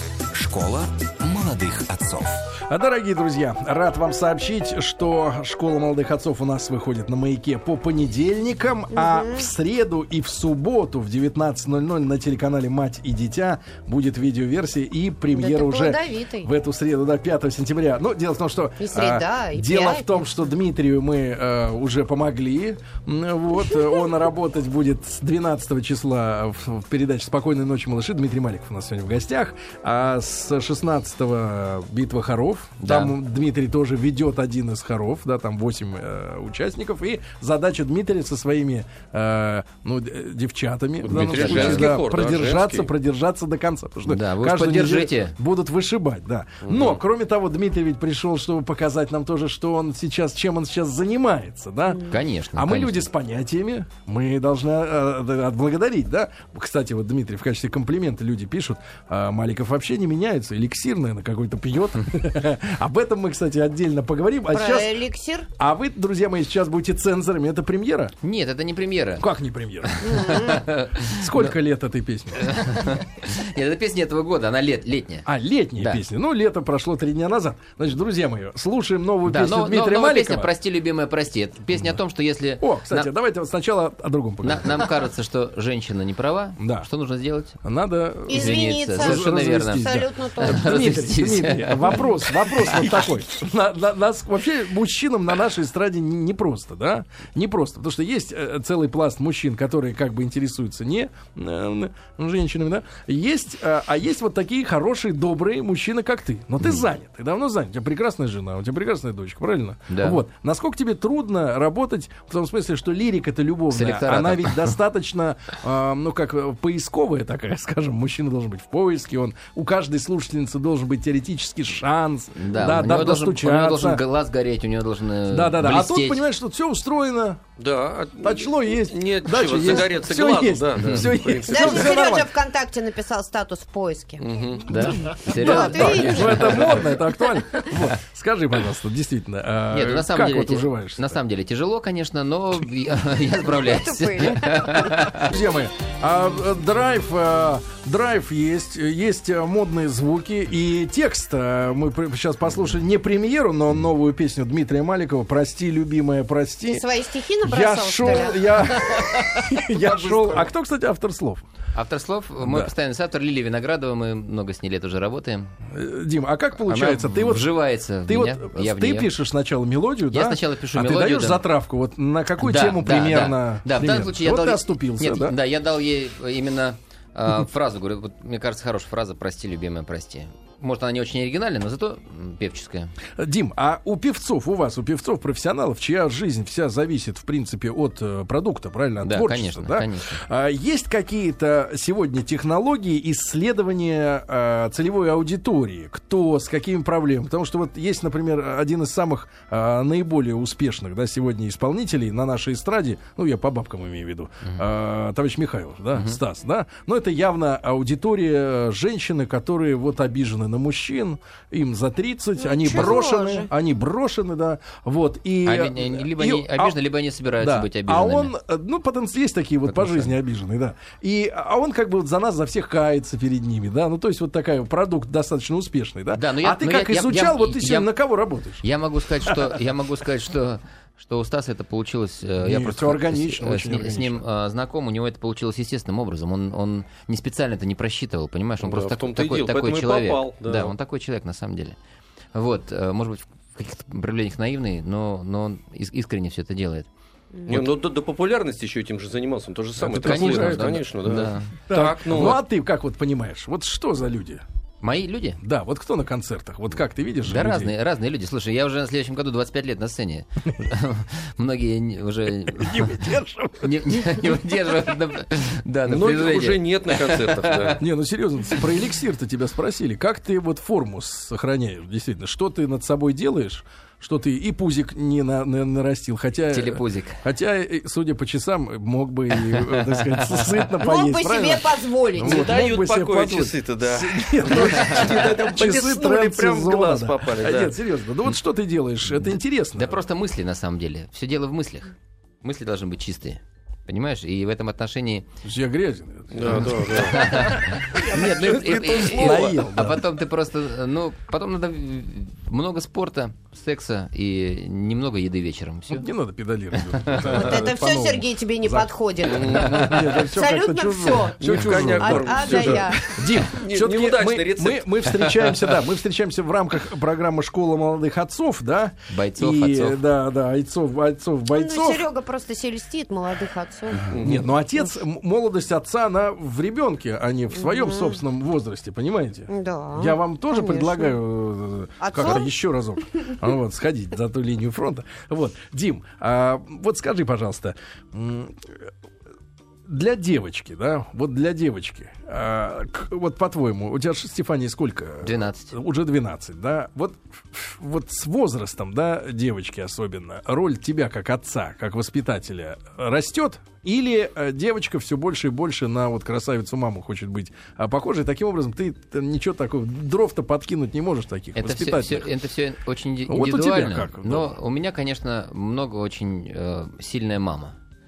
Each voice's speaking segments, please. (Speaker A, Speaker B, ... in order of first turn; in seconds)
Speaker A: 0.3-2.5
Speaker B: 2.7-65.0, 65.6-68.1, 69.2-70.2, 71.0-72.6, 75.2-80.5, 82.6-84.9, 86.6-86.9, 87.6-124.0, 125.3-127.4, 128.2-132.3, 134.7-141.2, 145.1-156.8, 157.4-161.4, 162.4-162.7, 165.7-175.3, 183.2-216.8, 217.4-228.6, 229.2-229.6, 232.4-234.2, 249.8-250.8, 251.7-254.4, 255.4-257.7, 262.5-264.2, 267.7-290.0, 295.4-300.0, 305.9-322.1, 324.0-338.9, 339.9-362.3, 363.3-364.6
Speaker C: 8.9-9.5, 15.3-16.5, 18.8-20.2, 64.5-65.5, 70.0-70.7, 88.3-91.1, 131.5-136.8, 143.6-144.9, 156.7-158.6, 212.4-213.5, 280.8-282.6, 307.3-313.0, 321.5-324.2, 327.5-328.2, 329.5-331.2, 332.0-332.5
Speaker D: 32.8-33.2, 41.3-41.9, 44.0-45.3, 52.0-53.1, 68.2-69.3, 69.8-71.5, 72.4-76.0, 79.2-83.1, 84.4-87.6, 88.3-93.0, 106.6-106.8, 109.9-110.2, 113.7-114.8, 122.3-126.2, 134.7-136.9, 139.7-145.3, 158.9-159.2, 161.7-165.5, 166.7-169.1, 170.1-171.4, 172.4-182.9, 189.0-190.2, 205.9-206.2, 215.4-218.3, 219.7-220.1, 226.1-227.9, 228.6-241.8, 242.3-246.9, 249.9-251.5, 254.8-255.4, 257.2-263.1, 263.6-267.8, 276.5-277.2, 279.3-280.6, 284.6-285.0, 289.8-295.3, 297.1-306.1, 306.8-307.5, 319.1-320.0, 345.2-345.7, 361.5-367.8
Speaker E: 41.0-42.9, 46.6-47.0, 127.6-132.0, 134.2-134.7, 238.6-240.7, 247.5-252.4, 265.9-267.8, 282.2-287.7, 296.3-297.3, 298.5-299.6, 309.2-310.0, 311.4-314.9, 324.1-324.5